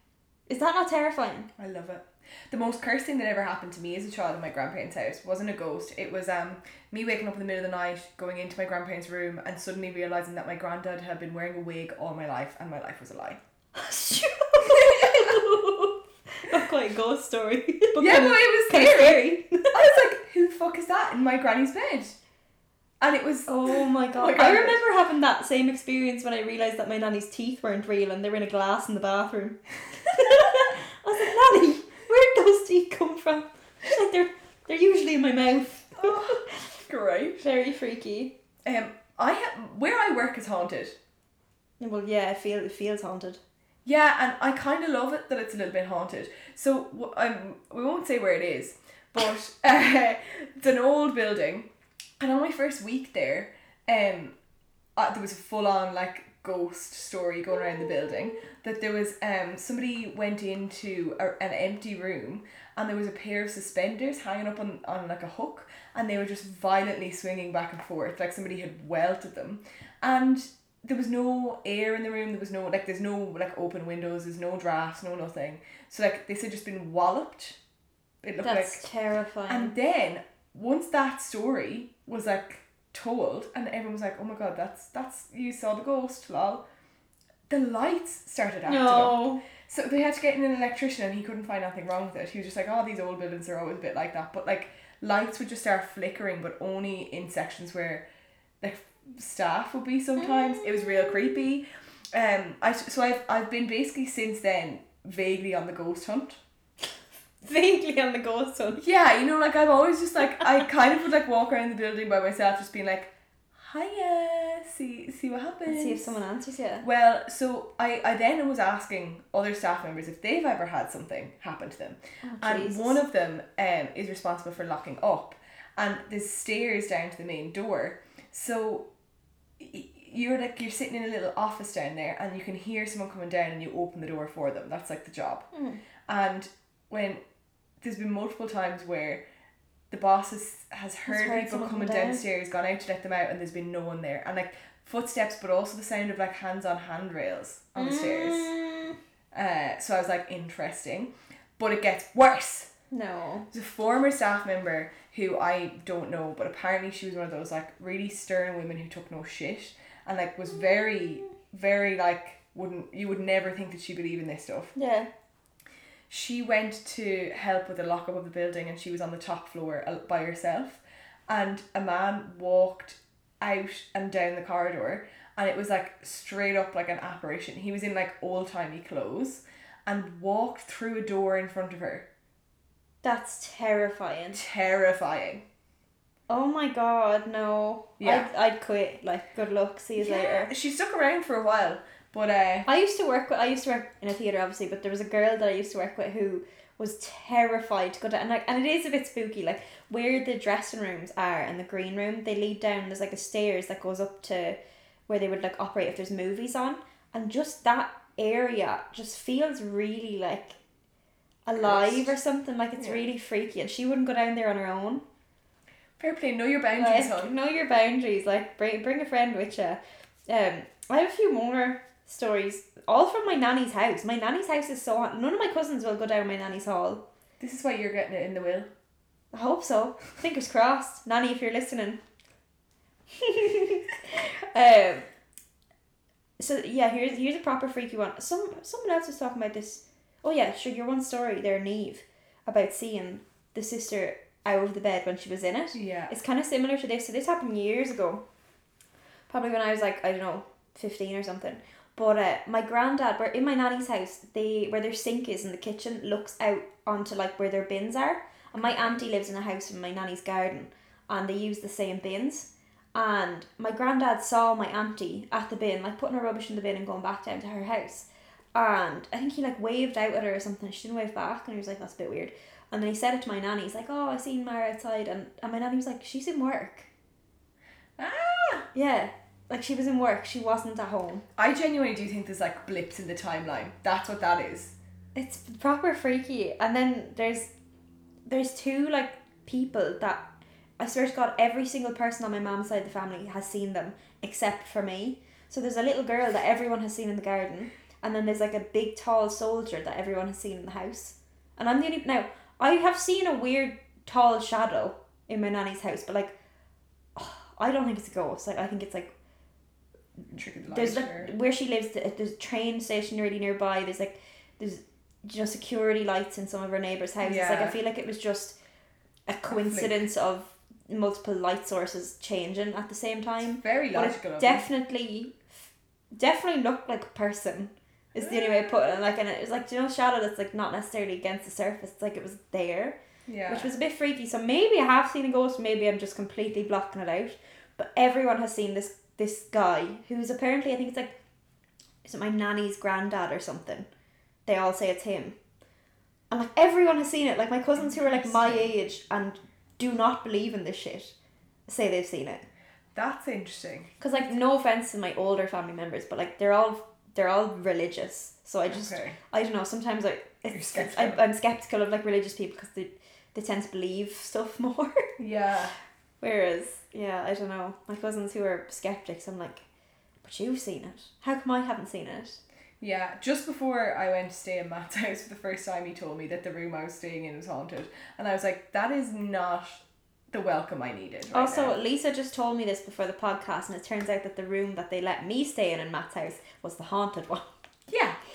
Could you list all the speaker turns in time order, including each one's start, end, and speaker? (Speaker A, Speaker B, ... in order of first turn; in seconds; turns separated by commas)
Speaker A: 0.5-1.5, Speaker B: 1.6-13.4, Speaker A: 13.7-20.0, Speaker B: 14.7-15.4, Speaker B: 18.0-19.2, Speaker B: 19.7-22.1, Speaker B: 23.0-24.8, Speaker A: 23.5-36.7, Speaker B: 36.0-37.4, Speaker A: 37.4-38.3, Speaker B: 38.6-41.0, Speaker A: 41.8-43.4, Speaker B: 43.8-51.7, Speaker B: 52.2-54.3, Speaker B: 55.0-77.6, Speaker B: 78.2-78.8, Speaker A: 78.4-79.7, Speaker B: 79.5-86.6, Speaker B: 87.5-98.0, Speaker A: 88.7-89.4, Speaker B: 98.6-106.4, Speaker A: 100.2-101.2, Speaker A: 107.4-108.8, Speaker B: 108.8-116.1, Speaker A: 115.7-116.8, Speaker B: 116.8-128.9, Speaker A: 122.2-123.0, Speaker B: 129.6-135.4, Speaker A: 135.5-135.8, Speaker B: 136.1-137.2, Speaker B: 137.8-139.2, Speaker B: 139.9-148.5, Speaker A: 141.1-142.2, Speaker A: 147.8-149.0, Speaker B: 149.3-152.7, Speaker A: 152.9-153.5, Speaker B: 153.5-164.7, Speaker A: 164.8-165.1, Speaker B: 166.1-182.1, Speaker A: 183.0-184.4, Speaker B: 184.3-185.4, Speaker A: 186.3-190.5, Speaker B: 188.0-188.3, Speaker B: 190.0-192.7, Speaker A: 192.7-210.6, Speaker A: 211.4-215.0, Speaker B: 211.6-212.1, Speaker B: 212.8-213.1, Speaker B: 216.0-217.3, Speaker A: 216.7-227.0, Speaker B: 227.4-228.7, Speaker A: 229.3-232.0, Speaker A: 233.1-235.1, Speaker A: 236.4-248.2, Speaker B: 245.7-246.1, Speaker A: 249.3-276.9, Speaker B: 258.6-259.0, Speaker B: 278.0-278.7, Speaker A: 278.7-281.2, Speaker B: 281.4-284.7, Speaker A: 285.1-287.5, Speaker A: 288.2-290.2, Speaker A: 290.8-306.3, Speaker A: 307.1-309.1, Speaker B: 310.3-311.3, Speaker A: 310.7-318.6, Speaker B: 317.2-317.8, Speaker A: 319.3-325.5, Speaker B: 319.5-319.9, Speaker B: 323.6-324.7, Speaker A: 326.1-333.0, Speaker B: 328.2-328.8, Speaker B: 333.3-333.7, Speaker A: 333.5-341.1, Speaker A: 342.0-343.9, Speaker A: 344.4-345.4, Speaker A: 346.3-351.1, Speaker B: 347.8-348.7, Speaker A: 351.7-352.4, Speaker B: 352.9-353.9, Speaker A: 354.0-365.1, Speaker B: 358.7-359.2, Speaker B: 360.5-361.2, Speaker B: 365.2-365.7, Speaker A: 366.2-369.6, Speaker A: 370.2-372.4, Speaker B: 372.8-381.8, Speaker A: 381.3-387.5, Speaker B: 387.9-388.2